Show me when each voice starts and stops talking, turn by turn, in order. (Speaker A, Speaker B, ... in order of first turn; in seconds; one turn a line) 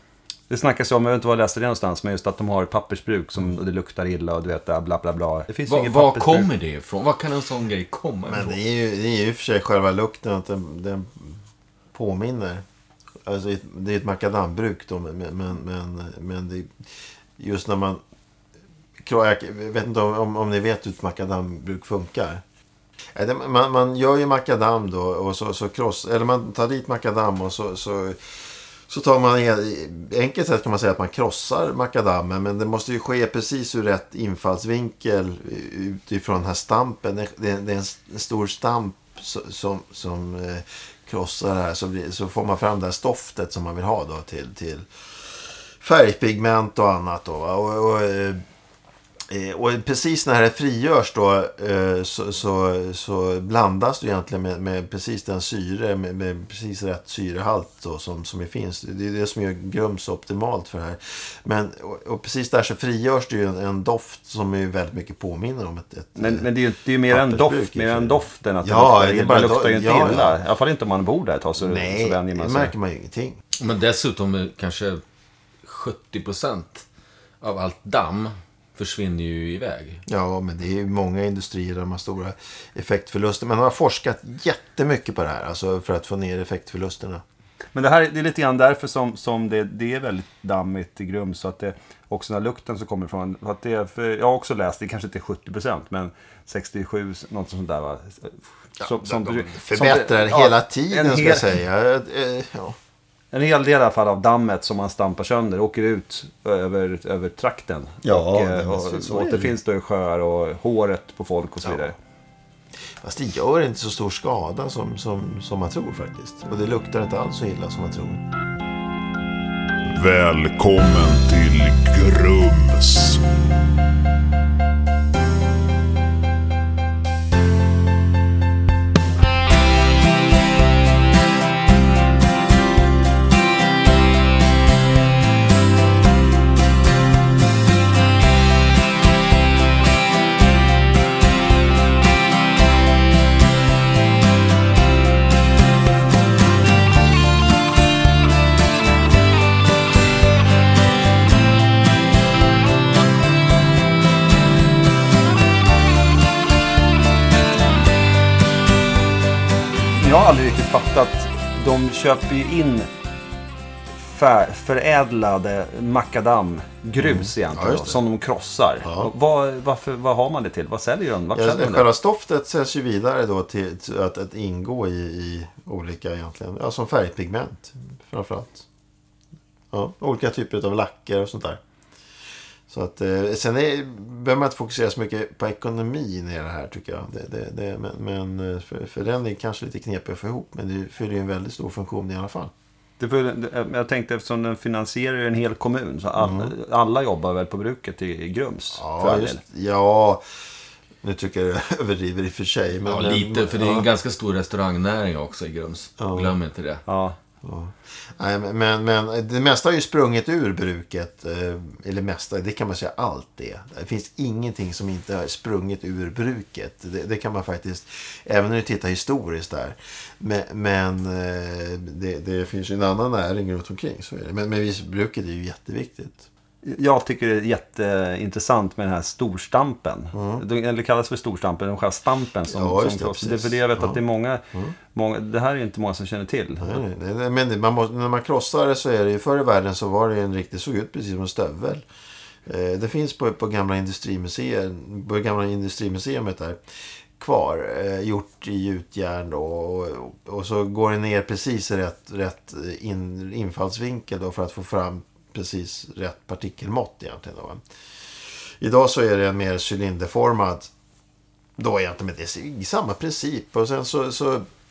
Speaker A: 0.5-6.5
Speaker B: 5.7-8.6
Speaker C: 8.3-11.4
Speaker C: 11.9-12.6
Speaker C: 13.2-16.9
Speaker C: 17.4-18.0
Speaker C: 19.0-22.4
Speaker C: 23.1-28.2
Speaker C: 28.9-48.4
Speaker C: 49.3-66.5
Speaker A: 66.2-72.7
Speaker C: 67.1-70.4
Speaker C: 71.6-73.4
Speaker B: 73.6-75.0
Speaker B: 75.6-76.8
Speaker B: 77.4-80.0
Speaker C: 80.1-87.2
Speaker A: 87.7-101.4
Speaker C: 99.0-102.8
Speaker A: 103.3-111.9
Speaker C: 108.0-109.5
Speaker C: 113.0-118.2
Speaker D: 119.9-123.3
Speaker A: 159.9-162.9
Speaker A: 164.0-171.9
Speaker C: 167.0-168.0
Speaker C: 168.8-169.1
Speaker C: 171.3-178.7
Speaker C: 179.7-181.6
Speaker C: 182.7-192.5
Speaker A: 193.0-199.4
Speaker C: 196.2-196.5
Speaker C: 198.7-200.2
Speaker C: 201.0-203.9
Speaker B: 202.9-206.8
Speaker C: 206.0-206.3
Speaker A: 206.9-207.2
Speaker C: 207.4-226.3
Speaker A: 226.6-236.8
Speaker C: 230.1-230.4
Speaker C: 232.5-234.0
Speaker C: 236.6-241.8
Speaker C: 242.4-257.6
Speaker C: 258.2-260.7
Speaker C: 261.6-264.4